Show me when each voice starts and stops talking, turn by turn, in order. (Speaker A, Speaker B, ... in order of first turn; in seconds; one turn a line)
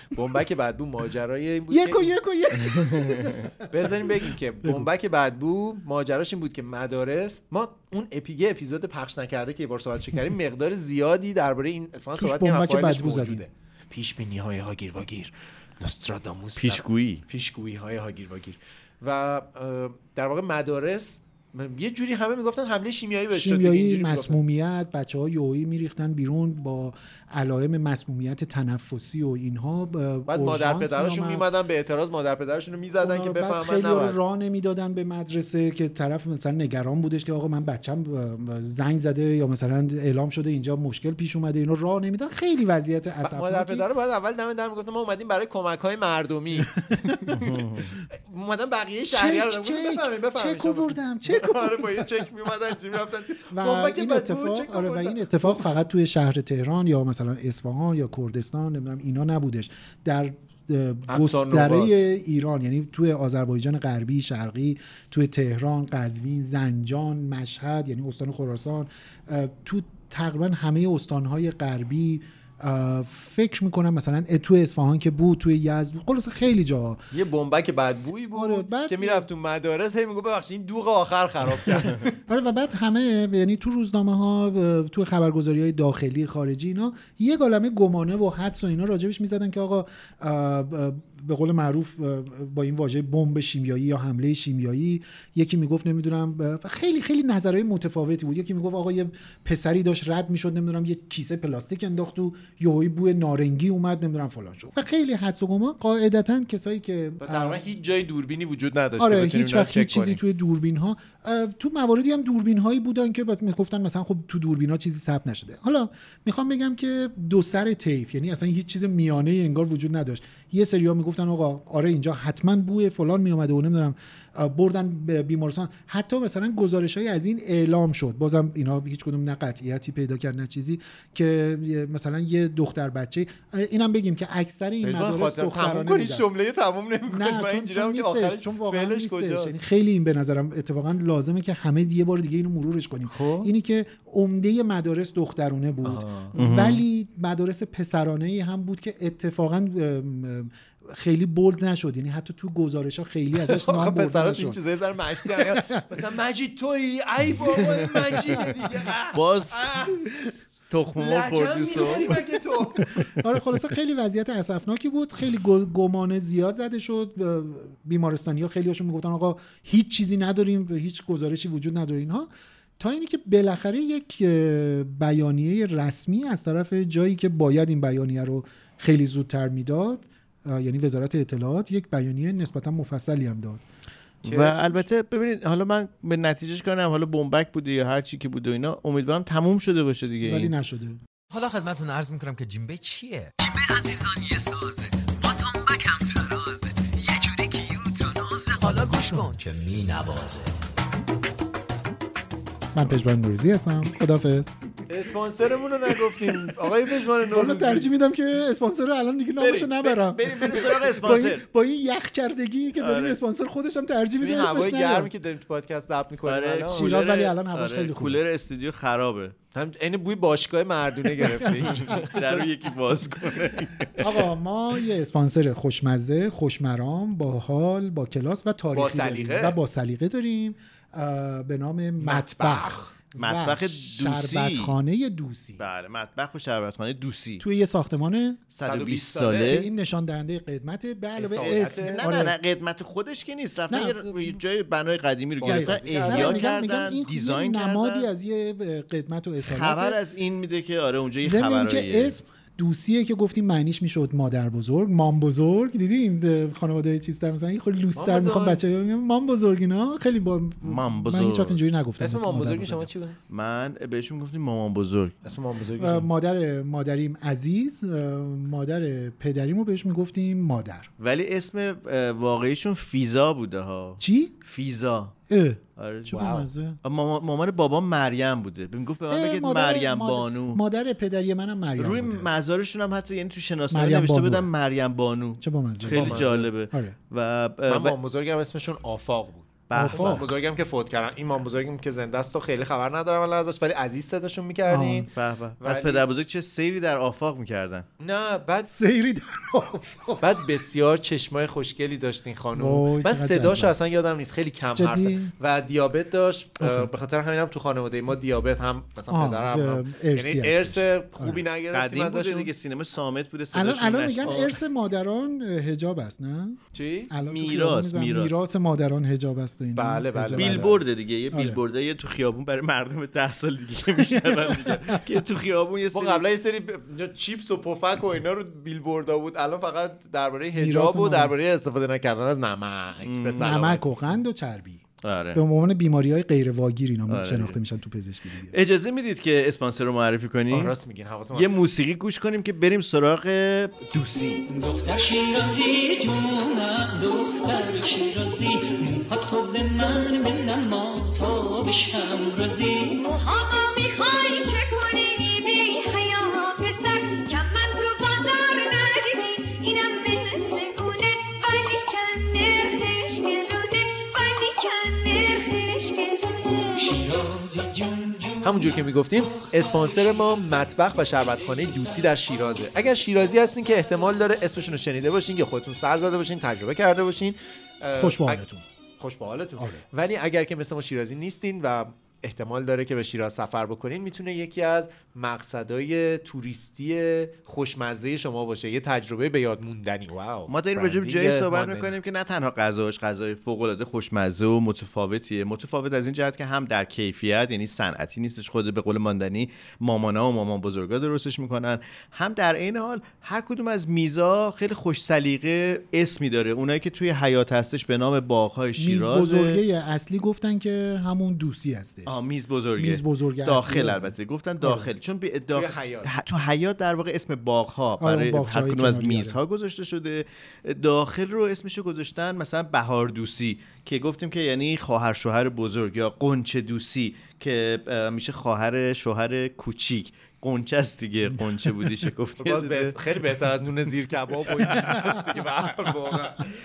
Speaker A: 0.1-2.1
Speaker B: 1.7-3.5
Speaker C: 3.0-3.4
Speaker A: 3.7-24.4
Speaker B: 12.2-13.4
Speaker C: 16.6-17.2
Speaker B: 23.3-31.5
Speaker A: 30.3-34.2
Speaker B: 33.0-43.9
Speaker A: 43.2-55.6
Speaker C: 47.4-47.8
Speaker B: 49.1-52.3
Speaker B: 53.5-77.0
Speaker A: 61.1-61.9
Speaker A: 77.1-82.2
Speaker B: 78.3-79.3
Speaker B: 82.3-107.6
Speaker A: 107.2-110.2
Speaker B: 109.0-136.3
Speaker A: 134.8-139.6
Speaker B: 137.1-154.6
Speaker A: 143.1-143.5
Speaker A: 145.8-146.3
Speaker C: 146.4-146.8
Speaker A: 153.3-160.0
Speaker B: 155.2-155.8
Speaker C: 159.1-159.9
Speaker C: 160.7-162.2
Speaker A: 160.9-162.9
Speaker B: 161.8-162.2
Speaker B: 163.2-183.6
Speaker A: 184.2-184.8
Speaker C: 184.3-190.5
Speaker B: 190.2-191.0
Speaker D: 191.3-200.5
Speaker B: 202.7-204.5
Speaker A: 204.9-207.9
Speaker B: 207.1-215.1
Speaker C: 209.4-211.4
Speaker C: 212.8-213.2
Speaker A: 214.2-216.9
Speaker C: 216.2-219.3
Speaker B: 216.7-218.2
Speaker A: 219.5-222.5
Speaker B: 221.4-221.9
Speaker C: 221.7-224.1
Speaker B: 224.0-235.6
Speaker A: 228.7-229.6
Speaker A: 232.0-232.9
Speaker C: 233.2-234.7
Speaker C: 235.6-237.4
Speaker B: 237.4-238.4
Speaker C: 238.5-239.7
Speaker A: 238.6-239.6
Speaker B: 239.4-242.3
Speaker A: 241.2-242.0
Speaker C: 241.4-248.1
Speaker B: 243.7-244.4
Speaker A: 245.4-246.4
Speaker B: 245.4-250.0
Speaker C: 249.4-252.1
Speaker B: 251.2-262.9
Speaker A: 257.9-258.6
Speaker C: 260.6-261.6
Speaker A: 262.0-263.1
Speaker C: 263.3-265.1
Speaker A: 265.2-266.1
Speaker B: 265.8-270.9
Speaker C: 271.0-275.1
Speaker B: 274.0-274.4
Speaker B: 275.3-276.8
Speaker C: 275.8-276.2
Speaker A: 276.1-276.4
Speaker C: 276.8-280.6
Speaker B: 279.1-282.3
Speaker C: 281.8-288.0
Speaker B: 283.7-284.5
Speaker B: 285.4-286.9
Speaker A: 285.9-286.5
Speaker A: 287.7-295.1
Speaker C: 289.7-290.3
Speaker B: 289.7-290.3
Speaker B: 294.7-295.1
Speaker C: 295.1-297.9
Speaker A: 295.6-296.1
Speaker A: 298.0-298.7
Speaker B: 298.7-300.3
Speaker A: 300.2-312.5
Speaker B: 302.5-303.7
Speaker B: 304.8-305.3
Speaker B: 306.6-306.9
Speaker B: 309.1-311.4
Speaker C: 311.7-314.5
Speaker B: 313.5-321.6
Speaker A: 316.7-317.1
Speaker C: 317.3-318.4
Speaker A: 319.8-320.7
Speaker C: 320.3-326.2
Speaker B: 324.1-325.0
Speaker A: 325.9-333.9
Speaker B: 330.6-331.3
Speaker C: 333.1-333.6
Speaker B: 333.4-338.5
Speaker C: 335.0-335.4
Speaker C: 337.1-337.6
Speaker C: 338.5-340.7
Speaker A: 340.5-341.6
Speaker C: 341.3-344.4
Speaker E: 344.5-352.9
Speaker F: 352.9-367.0
Speaker E: 367.0-368.4
Speaker A: 368.4-378.4
Speaker B: 377.9-378.6
Speaker A: 379.0-391.9
Speaker B: 379.6-379.8
Speaker C: 390.5-409.6
Speaker B: 408.8-412.2
Speaker C: 412.1-433.0
Speaker B: 412.8-414.9
Speaker A: 415.5-416.1
Speaker B: 418.0-419.4
Speaker A: 432.4-436.4